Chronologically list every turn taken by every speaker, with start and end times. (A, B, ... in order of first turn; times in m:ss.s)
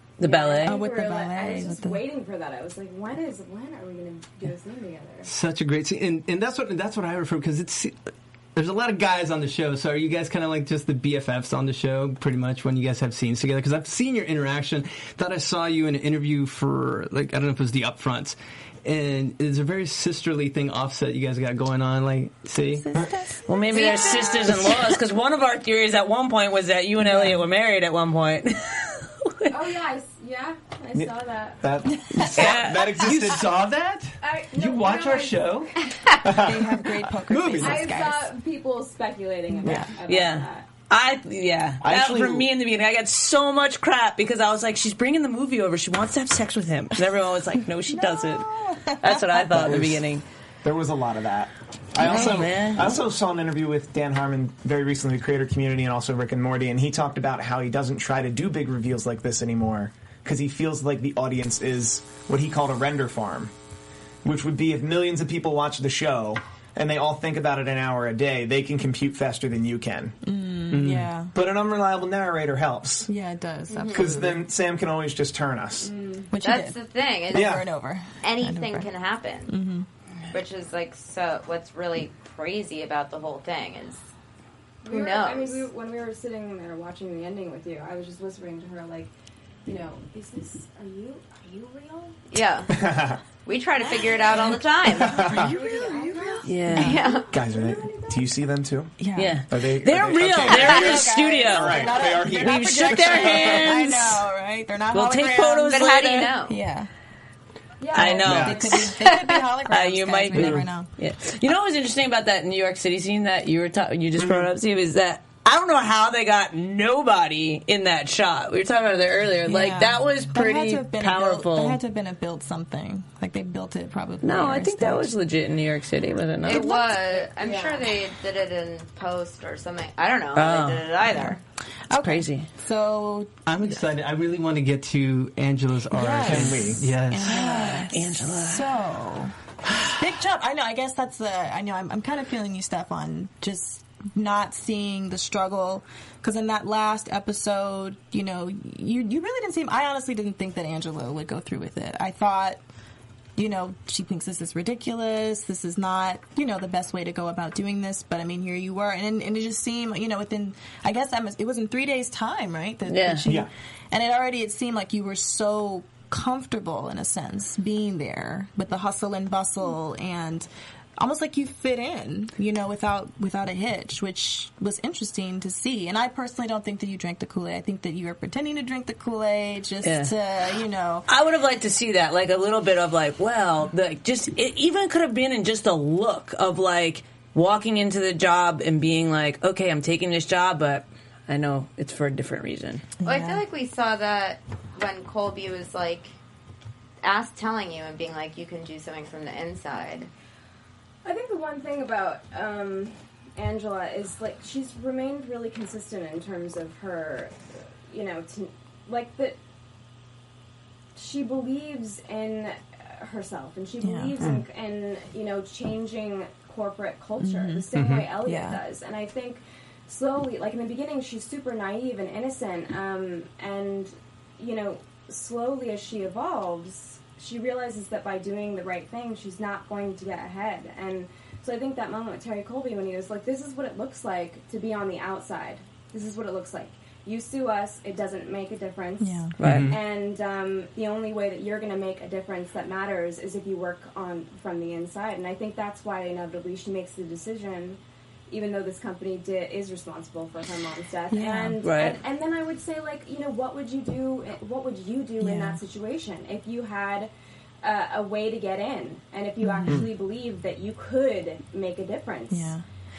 0:00.2-0:00.8 A
0:00.2-0:05.3 B
0:00.6-0:02.0 C
0:05.2-0:22.9 D
0:22.7-0:25.0 C
0:23.5-0:29.6 A
0:23.7-0:24.5 B
0:23.8-0:24.5 E
0:27.0-0:27.4 C
0:29.5-0:31.7 B
0:30.9-0:33.4 F
0:32.0-0:32.7 C
0:32.1-0:32.8 A
0:33.0-0:35.7 D
0:34.2-0:36.2 B
0:36.2-0:36.7 F
0:36.4-0:38.3 C
0:37.2-0:37.9 D
0:37.6-0:40.7 B
0:39.6-0:39.9 C
0:40.1-0:50.2 A
0:41.8-0:42.5 F
0:47.9-0:49.8 C
0:49.5-0:50.1 F
0:50.6-1:03.5 F
0:52.0-0:53.0 A
0:52.1-0:52.4 C
1:04.2-1:10.2 F
1:10.2-1:11.3 C
1:10.7-1:11.1 D
1:11.4-1:13.1 F
1:13.1-1:14.4 C
1:13.7-1:14.1 E
1:13.9-1:15.9 F
1:15.8-1:16.4 B
1:16.3-1:18.9 C
1:16.4-1:17.6 E
1:17.3-1:17.7 F
1:18.2-1:19.6 E
1:19.5-1:19.9 C
1:20.3-1:24.1 E
1:24.8-1:29.1 B
1:24.9-1:25.7 E
1:29.7-1:32.5 B
1:32.3-1:32.7 E
1:32.7-1:33.2 F
1:33.4-1:35.4 E
1:33.9-1:38.4 B
1:34.9-1:35.6 F
1:35.3-1:37.1 C
1:36.4-1:37.0 A
1:36.8-1:37.3 E
1:37.3-1:38.9 F
1:39.0-1:39.4 C
1:39.2-1:44.2 A
1:39.5-1:43.8 F
1:40.5-1:46.9 C
1:44.9-1:46.3 A
1:45.7-1:46.6 E
1:47.8-1:48.5 B
1:47.9-1:48.9 A
1:48.0-1:50.9 C
1:48.1-1:48.7 F
1:49.0-1:49.4 E
1:49.7-2:01.8 A
1:50.3-1:50.6 D
1:54.2-1:54.5 F
1:59.4-2:05.2 C
2:04.2-2:07.2 A
2:06.4-2:11.4 E
2:07.4-2:07.9 B
2:10.4-2:10.9 A
2:11.9-2:13.3 C
2:12.0-2:12.5 A
2:13.5-2:17.6 D
2:15.9-2:19.4 C
2:16.2-2:16.8 F
2:17.2-2:18.7 A
2:19.9-2:32.6 C
2:33.4-3:01.1 C
2:42.9-2:43.3 A
2:59.8-3:00.1 A
3:01.1-3:12.9 A
3:13.0-3:13.4 C
3:13.0-3:16.1 E
3:17.0-3:20.1 E
3:21.0-3:29.4 B
3:31.0-4:17.1 B
3:33.8-3:34.2 C
3:34.2-3:34.4 F
3:37.2-3:37.7 C
3:37.7-3:38.1 D
3:38.2-3:38.6 C
3:59.0-3:59.3 C
3:59.4-3:59.7 A
3:59.4-3:59.8 D
4:11.1-4:11.6 C
4:11.6-4:12.0 A
4:15.2-4:15.6 C
4:17.6-4:22.6 B
4:19.4-4:19.9 C
4:19.7-4:19.9 F
4:22.3-4:22.6 C